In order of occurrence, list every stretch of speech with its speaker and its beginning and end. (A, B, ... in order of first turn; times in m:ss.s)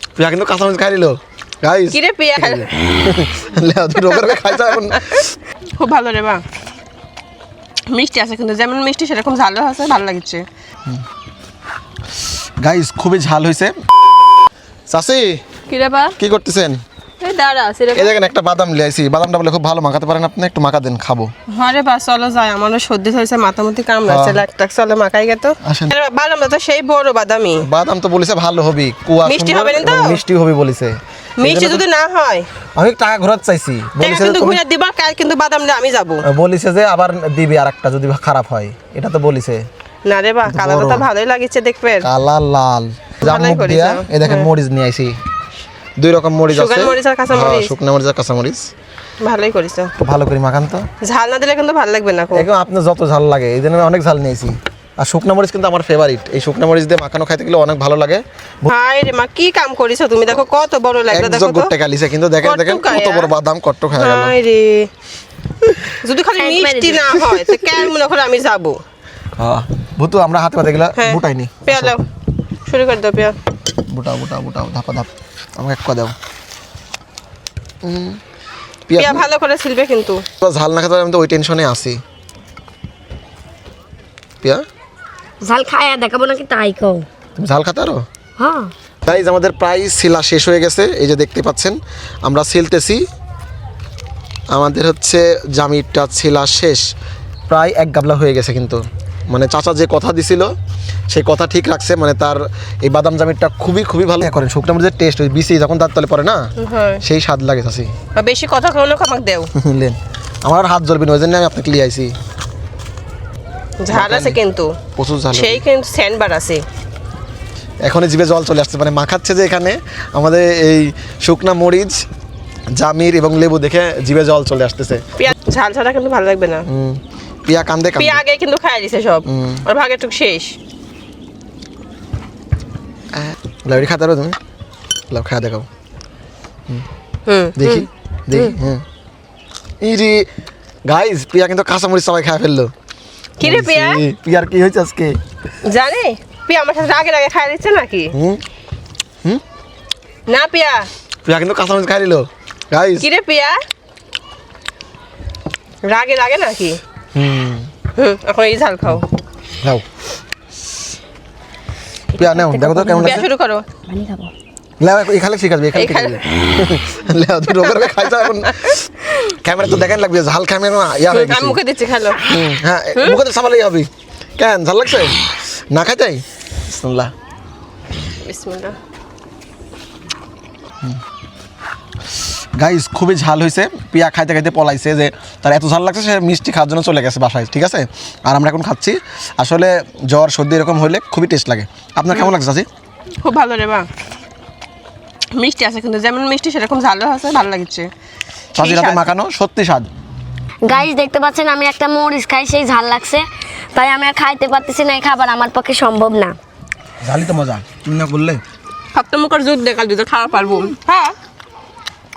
0:00.2-0:05.3 A
0:01.9-0:02.7 B
0:05.8-0:06.4 B
0:07.9-0:10.4 B
0:12.6-0:13.7 A
0:14.9-0:15.4 A
0:15.7-0:16.2 B
0:16.2-0:16.8 A
0:17.2-0:18.1 B
0:17.9-0:21.3 A
0:21.5-0:27.6 B
0:24.0-0:24.4 A
0:25.6-0:25.9 A
0:27.6-0:31.8 A
0:29.2-0:30.2 B
0:31.4-0:32.4 B
0:32.8-0:34.6 A
0:34.0-0:36.2 B
0:36.3-0:39.6 A
0:40.0-0:42.1 B
0:40.4-0:41.0 A
0:42.0-0:45.1 A
0:43.2-0:44.5 B
0:46.0-0:48.6 A
0:46.5-0:47.7 B
0:49.2-0:49.9 B
0:50.0-0:50.8 A
0:51.0-0:52.5 B
0:52.3-0:58.7 A
0:58.6-1:01.7 B
1:01.1-1:04.3 A
1:02.4-1:03.3 B
1:04.0-1:04.9 B
1:06.0-1:08.8 B
1:06.4-1:07.1 C
1:09.4-1:11.9 A
1:11.0-1:12.0 B
1:12.6-1:13.4 B
1:13.9-1:16.1 A
1:17.8-1:18.2 A
1:18.9-1:19.2 A
1:19.0-1:20.2 B
1:20.4-1:22.0 A
1:25.4-1:27.0 C
1:27.4-1:28.0 A
1:28.4-1:28.7 C
1:29.0-1:33.0 A
1:34.5-1:36.8 A
1:37.5-1:40.5 A
1:41.1-1:46.4 A
1:46.6-1:47.0 B
1:47.0-1:47.9 A
1:48.2-1:49.5 B
1:49.5-1:52.1 A
1:53.8-1:54.8 B
1:53.9-1:54.4 A
1:55.0-1:55.6 A
1:55.3-1:56.6 B
1:57.8-2:02.0 A
2:02.7-2:05.0 A
2:05.2-2:06.6 B
2:06.7-2:08.2 A
2:08.0-2:10.6 B
2:09.3-2:09.6 A
2:13.1-2:14.4 A
2:15.1-2:15.7 A
2:17.2-2:17.9 B
2:17.6-2:18.8 A
2:19.8-2:20.3 A
2:20.9-2:22.7 A
2:23.4-2:24.0 B
2:23.4-2:25.2 A
2:25.6-2:28.1 B
2:28.1-2:28.4 A
2:30.3-2:30.9 B
2:31.2-2:33.0 A
2:33.0-2:33.6 B
2:35.8-2:36.8 B
2:37.1-2:37.7 A
2:37.9-2:39.1 B
2:42.1-2:43.2 C
2:42.1-2:43.2 A
2:43.0-2:43.6 B
2:43.9-2:44.3 C
2:44.8-2:51.6 A
2:45.7-2:46.2 B
2:47.6-2:48.8 B
2:51.1-2:52.3 B
2:52.2-2:57.1 A
2:52.9-2:53.2 B
2:58.2-2:58.8 B
3:02.6-3:12.7 A
3:13.2-3:13.9 B
3:15.3-3:17.9 B
3:18.5-3:19.1 B
3:18.6-3:19.9 A
3:20.6-3:26.4 C
3:27.0-3:28.4 A
3:28.9-3:31.1 B